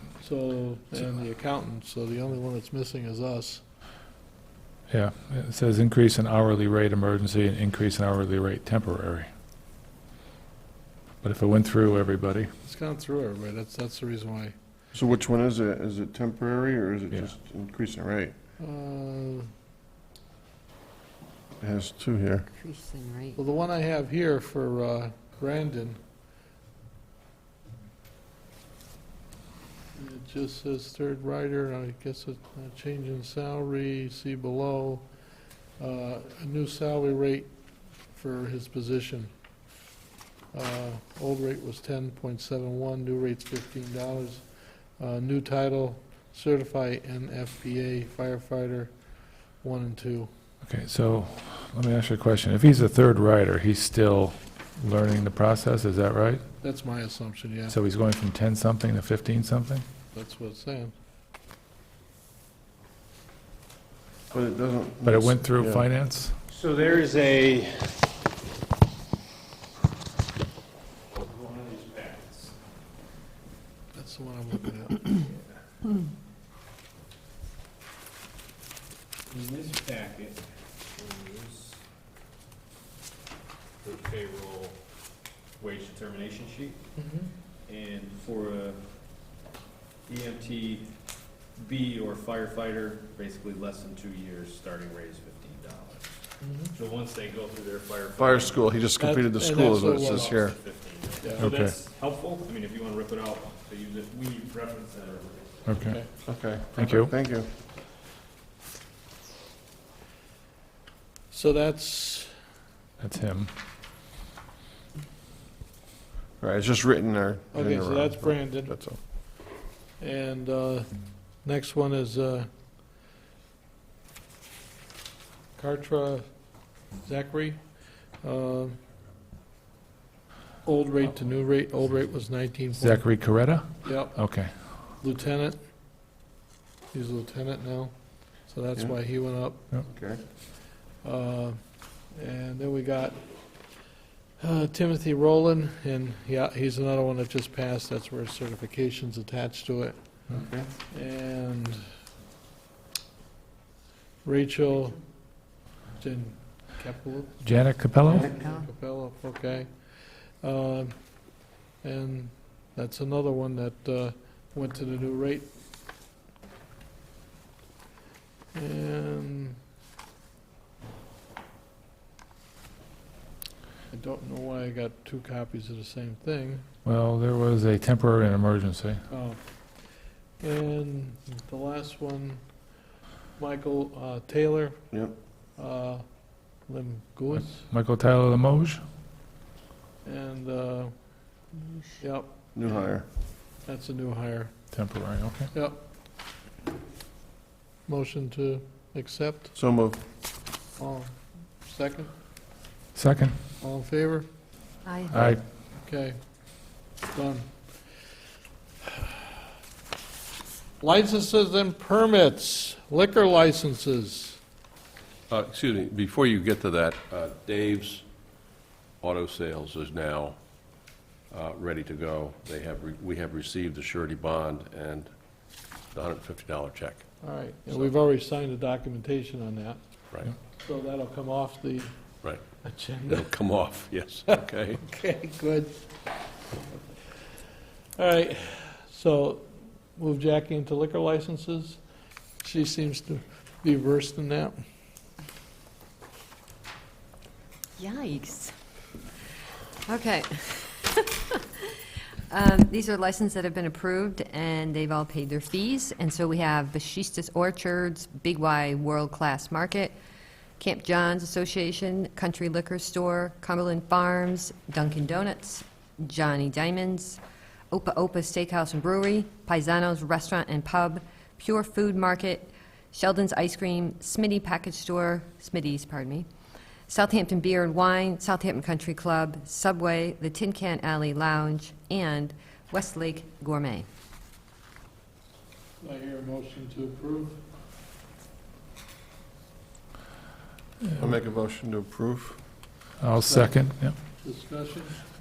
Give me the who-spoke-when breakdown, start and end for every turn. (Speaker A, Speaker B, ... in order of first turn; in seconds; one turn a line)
Speaker A: 0.2-3.6
Speaker B: 4.9-9.3
Speaker B: 11.2-12.5
Speaker A: 12.6-14.5
Speaker C: 14.9-18.3
Speaker A: 18.6-19.5
Speaker C: 21.6-22.4
Speaker D: 22.5-23.4
Speaker A: 23.4-26.0
Speaker A: 29.9-35.0
Speaker A: 35.8-37.5
Speaker A: 38.1-39.3
Speaker A: 40.5-50.3
Speaker B: 50.6-56.4
Speaker A: 56.6-57.8
Speaker B: 57.7-59.8
Speaker A: 60.1-60.9
Speaker C: 64.3-65.8
Speaker B: 65.0-66.3
Speaker E: 66.5-68.0
Speaker E: 71.1-72.6
Speaker A: 73.9-75.2
Speaker E: 79.2-81.8
Speaker E: 83.8-84.9
Speaker E: 85.6-86.9
Speaker A: 87.0-87.3
Speaker E: 87.5-88.8
Speaker E: 90.0-98.8
Speaker A: 96.4-96.7
Speaker C: 98.2-100.6
Speaker A: 99.0-100.3
Speaker E: 99.8-105.6
Speaker B: 101.4-101.7
Speaker B: 105.6-107.1
Speaker C: 106.2-107.5
Speaker A: 111.3-112.3
Speaker B: 113.0-113.5
Speaker C: 116.4-119.0
Speaker A: 117.5-118.8
Speaker A: 120.0-122.5
Speaker A: 125.5-126.2
Speaker A: 127.0-127.6
Speaker A: 128.2-128.8
Speaker A: 130.6-133.2
Speaker B: 132.8-134.8
Speaker A: 133.8-135.6
Speaker A: 136.9-139.6
Speaker C: 139.9-140.2
Speaker A: 141.0-143.2
Speaker A: 144.4-149.9
Speaker C: 150.3-150.7
Speaker A: 150.9-151.8
Speaker A: 154.2-155.2
Speaker A: 156.0-157.4
Speaker B: 157.4-158.3
Speaker A: 158.0-161.2
Speaker D: 158.4-158.7
Speaker A: 161.8-165.5
Speaker A: 168.5-169.6
Speaker A: 173.9-176.6
Speaker B: 176.8-179.0
Speaker A: 179.1-179.9
Speaker A: 180.4-182.6
Speaker A: 183.3-184.8
Speaker A: 185.5-187.7
Speaker B: 187.4-188.8
Speaker A: 190.0-191.4
Speaker D: 191.6-191.9
Speaker A: 192.0-192.3
Speaker C: 192.5-193.1
Speaker A: 193.6-194.7
Speaker B: 194.7-195.5
Speaker A: 195.5-195.8
Speaker A: 197.8-199.5
Speaker C: 199.5-200.0
Speaker A: 200.8-202.2
Speaker B: 202.9-203.3
Speaker A: 203.6-204.2
Speaker D: 204.8-205.1
Speaker B: 205.1-205.4
Speaker A: 205.8-207.7
Speaker A: 208.9-209.2
Speaker A: 210.8-214.4
Speaker F: 215.3-218.0
Speaker F: 219.0-220.4
Speaker F: 221.3-225.1
Speaker F: 225.9-227.9
Speaker A: 227.2-229.8
Speaker A: 230.6-231.9
Speaker F: 232.2-234.8
Speaker A: 232.6-233.3
Speaker A: 234.8-235.9
Speaker A: 237.9-241.8
Speaker A: 242.4-244.6
Speaker D: 247.8-248.5
Speaker D: 249.8-251.7
Speaker D: 252.3-259.9
Speaker D: 260.6-276.2
Speaker D: 276.9-283.9
Speaker A: 285.8-287.4
Speaker C: 291.0-292.4
Speaker B: 293.0-293.9
Speaker A: 293.2-294.9